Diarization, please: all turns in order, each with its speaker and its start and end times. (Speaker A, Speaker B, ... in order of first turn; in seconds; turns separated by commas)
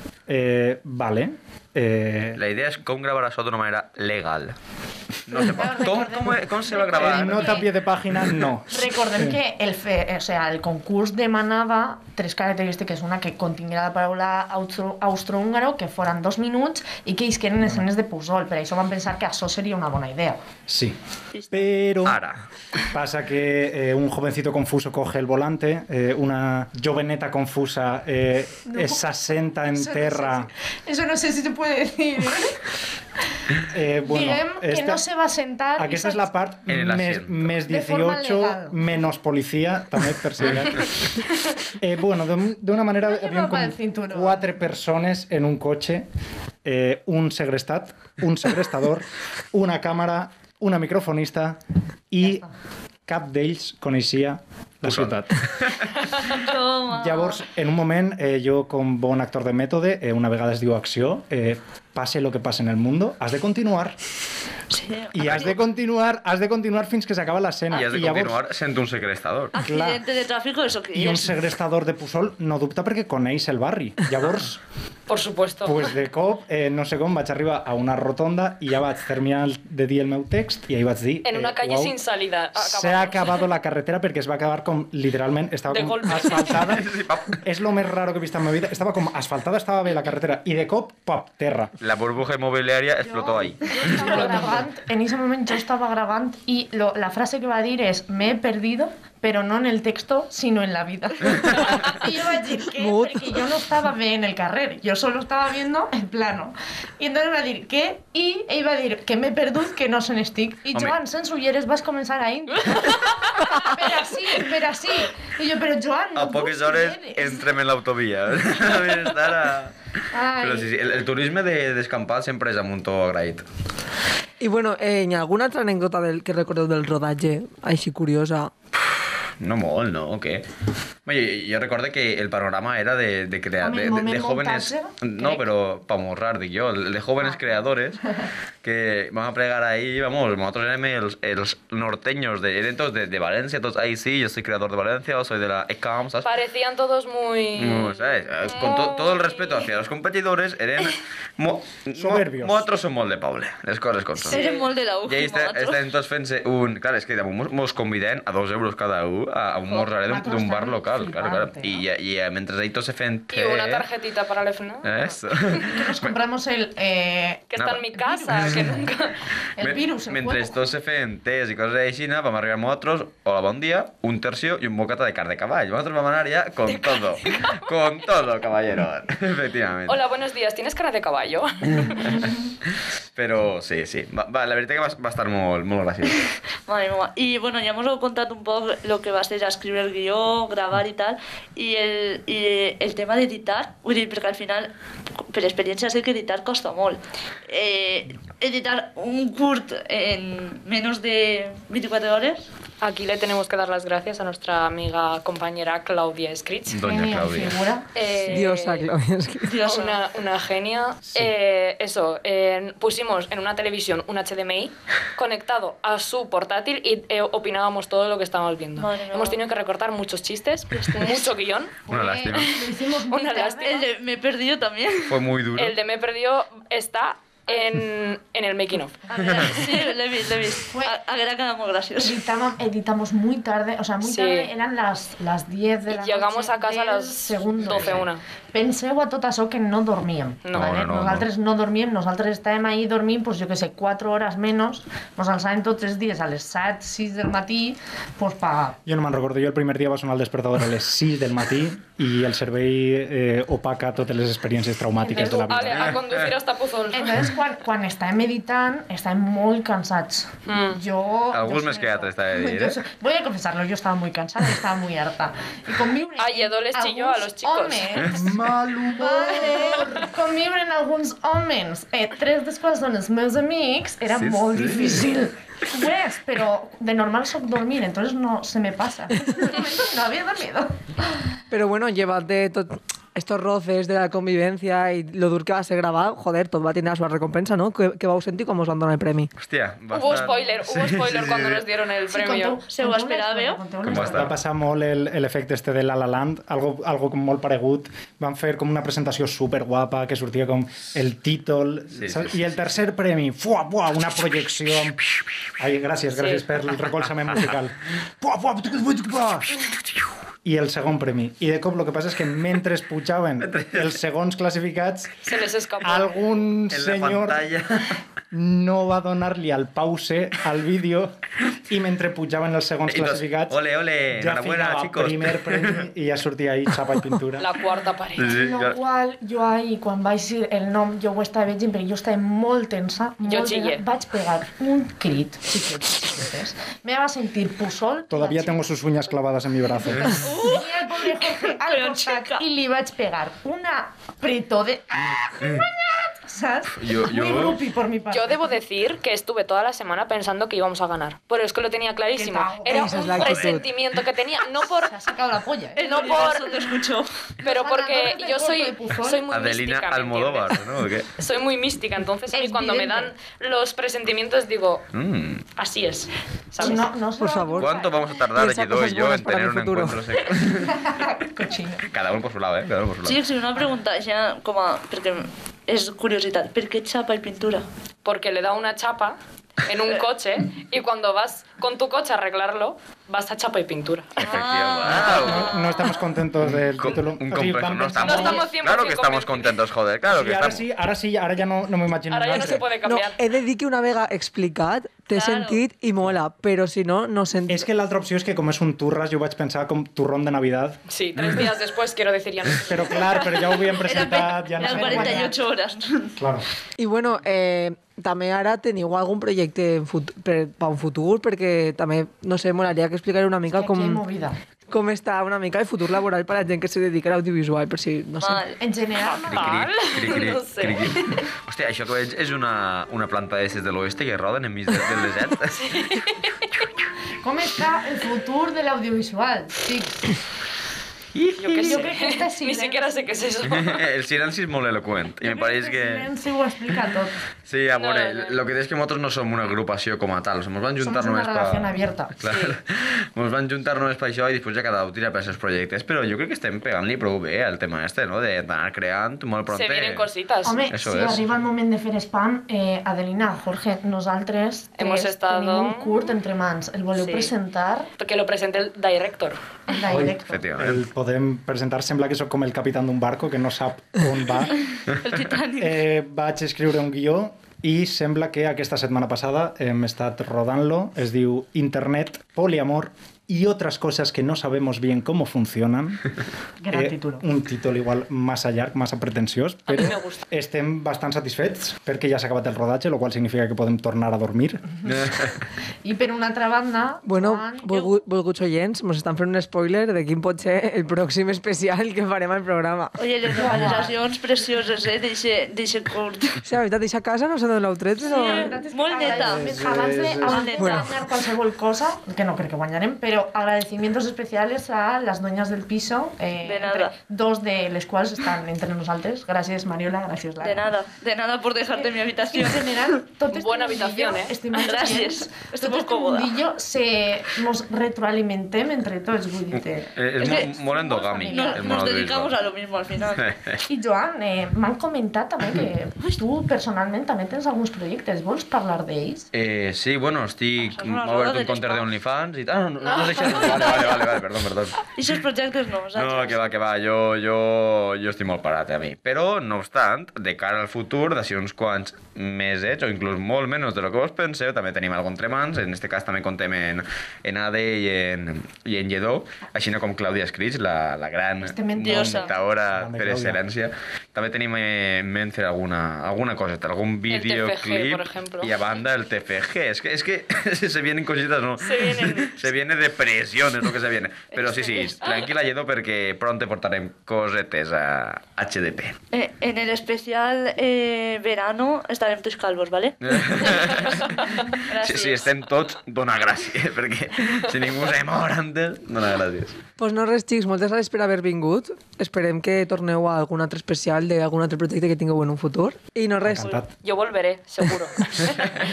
Speaker A: 0.3-2.4, Speaker B: 2.4-4.6, Speaker B: 5.3-7.7, Speaker C: 5.3-7.7, Speaker A: 7.0-9.4, Speaker C: 8.7-20.4, Speaker A: 20.7-21.0, Speaker D: 21.3-21.7, Speaker A: 21.5-22.2, Speaker B: 22.1-22.4, Speaker A: 22.9-30.5, Speaker C: 28.7-29.0, Speaker C: 29.7-32.6, Speaker A: 33.7-35.0, Speaker C: 34.0-36.3, Speaker A: 35.8-40.9, Speaker B: 36.7-37.5, Speaker C: 37.7-39.0, Speaker A: 41.8-46.1, Speaker C: 43.0-44.5, Speaker A: 46.6-51.6, Speaker A: 52.1-52.5, Speaker A: 53.1-55.5, Speaker B: 54.9-55.1, Speaker D: 56.2-57.4, Speaker A: 56.9-64.0, Speaker D: 64.7-65.6, Speaker A: 65.1-68.4, Speaker B: 67.7-69.5, Speaker D: 69.5-71.4, Speaker A: 69.6-70.0, Speaker A: 70.9-74.6, Speaker E: 75.1-75.8, Speaker A: 75.6-82.0, Speaker E: 81.2-83.4, Speaker A: 82.5-91.8, Speaker E: 85.7-86.8, Speaker B: 86.6-87.4, Speaker B: 91.8-94.6, Speaker C: 93.0-117.5, Speaker F: 102.7-103.5, Speaker E: 112.6-113.8, Speaker B: 116.2-119.9, Speaker C: 120.1-120.7, Speaker B: 120.4-123.5, Speaker F: 124.4-128.5, Speaker B: 128.8-130.4, Speaker B: 131.1-138.0, Speaker C: 133.6-135.5, Speaker B: 138.6-146.3, Speaker E: 146.2-149.7, Speaker B: 147.6-154.4, Speaker A: 151.9-152.7, Speaker D: 154.2-155.9, Speaker E: 154.3-154.6, Speaker B: 155.1-163.9, Speaker C: 159.7-161.8, Speaker E: 163.3-165.7, Speaker B: 164.8-166.2, Speaker C: 165.6-168.9, Speaker E: 167.5-169.2, Speaker B: 167.6-167.8, Speaker C: 169.6-170.6, Speaker B: 169.6-180.0, Speaker E: 176.7-177.7, Speaker E: 179.9-182.2, Speaker B: 181.7-182.3, Speaker B: 183.2-186.2, Speaker D: 186.7-194.7, Speaker D: 195.2-202.4, Speaker E: 202.8-206.8, Speaker B: 206.7-207.6, Speaker C: 206.8-207.9, Speaker E: 207.9-208.9, Speaker F: 208.3-209.6, Speaker D: 209.5-210.0, Speaker E: 209.6-221.8, Speaker D: 218.8-219.4, Speaker D: 220.8-221.2, Speaker C: 221.9-223.8, Speaker B: 221.9-222.6, Speaker E: 223.0-223.9, Speaker D: 223.6-225.2, Speaker B: 225.1-225.8, Speaker E: 225.6-229.8, Speaker D: 229.2-232.2, Speaker B: 229.2-229.5, Speaker C: 230.7-231.0, Speaker C: 232.0-248.8, Speaker E: 234.0-234.5, Speaker E: 235.9-238.2, Speaker B: 237.7-238.1, Speaker E: 240.4-240.8, Speaker B: 240.5-241.3, Speaker A: 248.9-256.0, Speaker C: 255.0-255.8, Speaker E: 255.1-257.3, Speaker B: 255.6-256.3, Speaker C: 256.9-280.9, Speaker E: 260.5-260.8, Speaker B: 261.3-262.8, Speaker E: 266.2-268.2, Speaker A: 268.1-270.1, Speaker B: 274.1-275.0, Speaker F: 281.5-289.3, Speaker B: 289.4-291.6, Speaker E: 289.9-292.6, Speaker C: 292.1-294.4, Speaker D: 292.7-293.6, Speaker B: 293.8-294.3, Speaker A: 293.9-305.0, Speaker B: 302.0-302.4, Speaker A: 305.6-309.6, Speaker E: 306.1-306.4, Speaker A: 310.4-317.5, Speaker B: 313.4-313.9, Speaker E: 315.2-316.3, Speaker B: 316.7-318.0, Speaker A: 318.3-323.6, Speaker B: 322.9-325.9, Speaker A: 324.1-327.5, Speaker E: 327.4-328.3, Speaker B: 328.2-328.8, Speaker C: 328.2-338.6, Speaker E: 333.2-333.8, Speaker A: 338.1-340.2, Speaker B: 339.9-340.2, Speaker C: 340.2-348.6, Speaker D: 340.2-342.4, Speaker B: 345.4-345.6, Speaker B: 346.7-347.6, Speaker E: 348.1-355.0, Speaker C: 352.1-353.4, Speaker F: 352.6-353.7, Speaker C: 354.8-356.3, Speaker D: 355.8-357.1, Speaker E: 355.8-356.8, Speaker C: 357.4-359.2, Speaker E: 357.4-364.9, Speaker B: 359.3-361.1, Speaker C: 362.3-363.1, Speaker B: 364.9-365.5, Speaker E: 365.6-366.9, Speaker C: 366.6-367.9, Speaker F: 366.6-367.8, Speaker B: 367.6-371.0, Speaker F: 368.4-370.0, Speaker C: 370.7-371.9, Speaker B: 371.9-373.2, Speaker D: 373.0-377.6, Speaker E: 378.1-384.3, Speaker D: 384.2-385.7, Speaker B: 384.2-385.5, Speaker A: 384.9-388.5, Speaker B: 386.8-390.6, Speaker E: 388.0-389.6, Speaker A: 390.1-392.7, Speaker E: 392.1-393.2, Speaker F: 392.4-397.7, Speaker D: 395.1-395.6, Speaker A: 397.5-400.8, Speaker E: 400.9-403.7, Speaker A: 402.6-405.3, Speaker D: 403.8-406.1, Speaker C: 404.6-405.4, Speaker A: 406.2-406.5, Speaker F: 406.8-414.0, Speaker C: 413.5-414.4, Speaker F: 414.7-418.5, Speaker D: 418.2-418.6, Speaker C: 418.6-419.7, Speaker E: 419.0-421.3, Speaker B: 419.3-425.7, Speaker E: 425.5-426.6, Speaker C: 427.2-430.1, Speaker B: 431.2-431.8, Speaker E: 431.3-433.9, Speaker C: 431.6-433.0, Speaker B: 433.4-436.1, Speaker C: 435.2-437.2, Speaker B: 437.5-450.1, Speaker E: 437.8-438.4, Speaker C: 440.8-442.2, Speaker E: 442.2-442.6, Speaker E: 449.5-450.7, Speaker C: 450.4-457.9, Speaker B: 450.7-451.4, Speaker E: 454.8-456.1, Speaker E: 458.0-459.8, Speaker C: 459.7-460.4, Speaker A: 459.9-464.6, Speaker B: 460.3-460.8, Speaker D: 464.9-465.8, Speaker A: 465.6-476.0, Speaker C: 476.6-477.2, Speaker A: 476.7-484.7, Speaker E: 479.7-480.2, Speaker B: 484.9-485.4, Speaker C: 485.8-487.9, Speaker F: 487.1-492.9, Speaker D: 493.0-496.4, Speaker C: 493.3-494.0, Speaker F: 496.4-498.6, Speaker C: 498.0-510.7, Speaker D: 498.1-499.5, Speaker A: 499.1-500.4, Speaker D: 500.2-500.9, Speaker F: 500.5-500.9, Speaker D: 506.4-506.9, Speaker D: 510.4-512.9, Speaker C: 511.8-521.9, Speaker E: 513.3-514.4, Speaker D: 514.5-516.4, Speaker B: 520.0-522.4, Speaker D: 520.2-520.6, Speaker D: 521.3-523.3, Speaker B: 523.2-523.6, Speaker C: 523.7-529.3, Speaker B: 529.3-534.8, Speaker D: 530.6-531.9, Speaker C: 532.8-534.0, Speaker D: 534.9-536.5, Speaker B: 536.0-569.0, Speaker C: 551.4-552.3, Speaker D: 551.8-552.3, Speaker A: 552.7-553.4, Speaker E: 557.1-558.6, Speaker E: 561.6-562.4, Speaker D: 564.4-565.1, Speaker D: 569.1-574.2, Speaker B: 573.0-579.6, Speaker E: 574.1-574.5, Speaker D: 574.7-575.3, Speaker F: 579.8-586.6, Speaker A: 586.2-586.7, Speaker E: 586.8-588.6